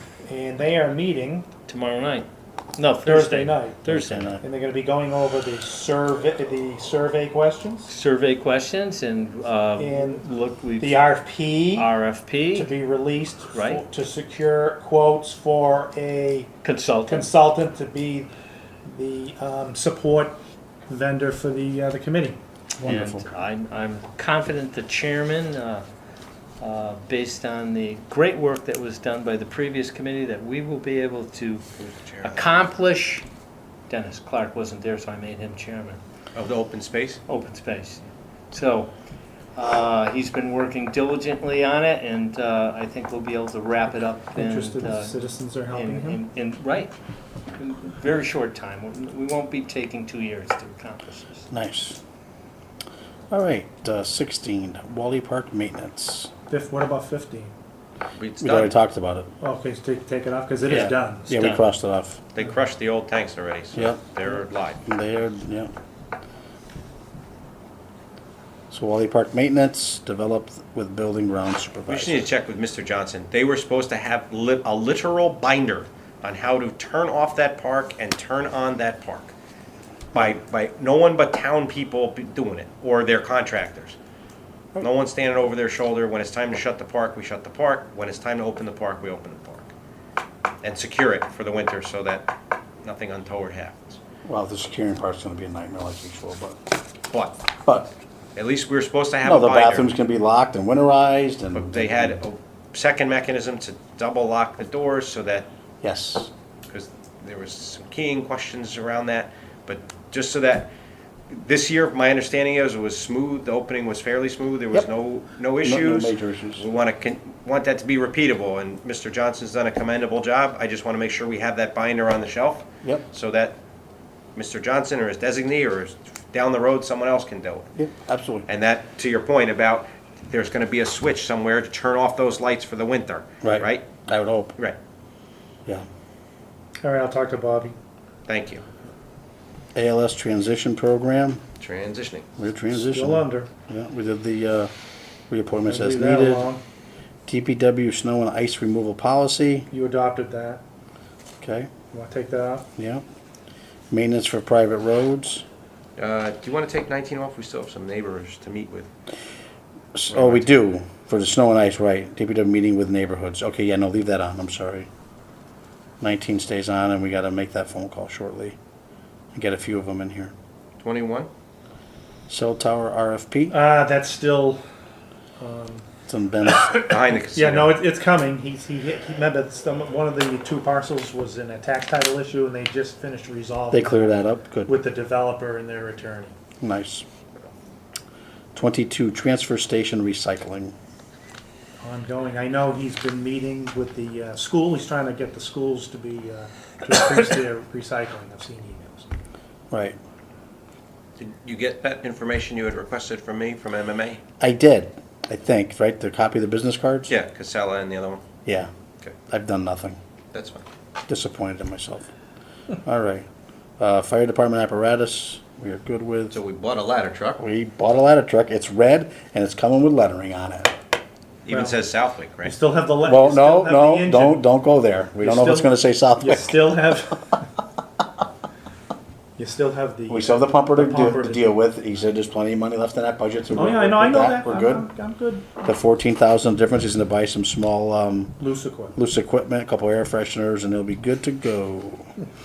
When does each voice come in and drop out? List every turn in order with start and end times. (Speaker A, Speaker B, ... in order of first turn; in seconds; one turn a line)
Speaker A: 0.2-1.5
Speaker B: 1.7-4.3
Speaker A: 3.0-7.9
Speaker C: 3.9-4.4
Speaker B: 7.9-11.0
Speaker A: 9.8-10.2
Speaker A: 10.8-11.9
Speaker B: 11.7-12.7
Speaker A: 12.5-16.5
Speaker B: 13.5-13.8
Speaker B: 16.6-17.3
Speaker A: 17.1-18.3
Speaker A: 18.9-22.4
Speaker B: 22.8-25.9
Speaker C: 22.8-23.3
Speaker B: 26.6-31.6
Speaker D: 31.8-32.5
Speaker B: 32.2-33.2
Speaker B: 33.9-36.0
Speaker D: 36.3-37.2
Speaker B: 37.3-38.9
Speaker B: 39.5-46.9
Speaker A: 44.4-46.2
Speaker B: 47.6-51.5
Speaker C: 51.5-52.0
Speaker C: 53.3-56.3
Speaker A: 56.5-57.5
Speaker D: 58.2-58.7
Speaker C: 58.4-59.3
Speaker A: 59.4-61.6
Speaker C: 60.7-62.2
Speaker D: 62.3-64.8
Speaker C: 63.8-64.0
Speaker C: 64.8-65.7
Speaker C: 68.7-72.3
Speaker D: 71.9-79.3
Speaker D: 80.1-84.0
Speaker D: 84.8-89.7
Speaker D: 90.6-92.3
Speaker D: 92.8-94.0
Speaker C: 94.2-96.6
Speaker D: 97.1-97.4
Speaker C: 97.7-97.9
Speaker D: 98.4-99.9
Speaker C: 99.2-102.2
Speaker D: 101.5-105.5
Speaker C: 105.8-106.3
Speaker D: 106.7-110.7
Speaker D: 111.3-123.6
Speaker C: 115.6-116.7
Speaker D: 124.3-127.7
Speaker C: 127.8-128.5
Speaker D: 128.5-133.9
Speaker C: 133.4-134.6
Speaker A: 136.8-137.8
Speaker D: 138.3-138.7
Speaker C: 139.8-141.4
Speaker D: 141.6-142.3
Speaker C: 142.4-144.7
Speaker A: 142.7-143.5
Speaker C: 145.3-146.5
Speaker A: 145.7-146.6
Speaker C: 147.3-149.7
Speaker A: 149.7-150.6
Speaker C: 151.4-151.7
Speaker A: 151.9-152.7
Speaker C: 152.8-153.0
Speaker C: 153.9-155.4
Speaker D: 156.0-158.9
Speaker C: 159.9-164.9
Speaker D: 160.1-160.5
Speaker C: 166.0-168.6
Speaker C: 169.3-170.3
Speaker D: 170.8-171.3
Speaker C: 172.3-173.6
Speaker A: 173.5-174.6
Speaker A: 175.4-175.9
Speaker C: 176.1-176.8
Speaker A: 176.5-186.3
Speaker D: 176.8-177.8
Speaker C: 183.7-184.7
Speaker C: 186.6-187.1
Speaker C: 188.6-190.7
Speaker A: 191.8-199.1
Speaker C: 199.7-200.0
Speaker D: 201.2-204.2
Speaker C: 204.4-207.1
Speaker D: 207.1-208.2
Speaker C: 208.4-208.7
Speaker C: 209.3-210.0
Speaker D: 210.3-210.7
Speaker C: 211.1-212.1
Speaker C: 212.8-213.3
Speaker C: 213.8-216.4
Speaker D: 216.3-217.4
Speaker C: 217.4-220.8
Speaker D: 221.4-222.6
Speaker A: 221.5-221.8
Speaker A: 222.4-224.5
Speaker C: 223.0-226.7
Speaker A: 225.2-227.4
Speaker A: 229.4-231.5
Speaker C: 230.1-234.9
Speaker A: 233.6-235.6
Speaker C: 235.6-238.4
Speaker A: 238.4-238.9
Speaker C: 238.9-242.1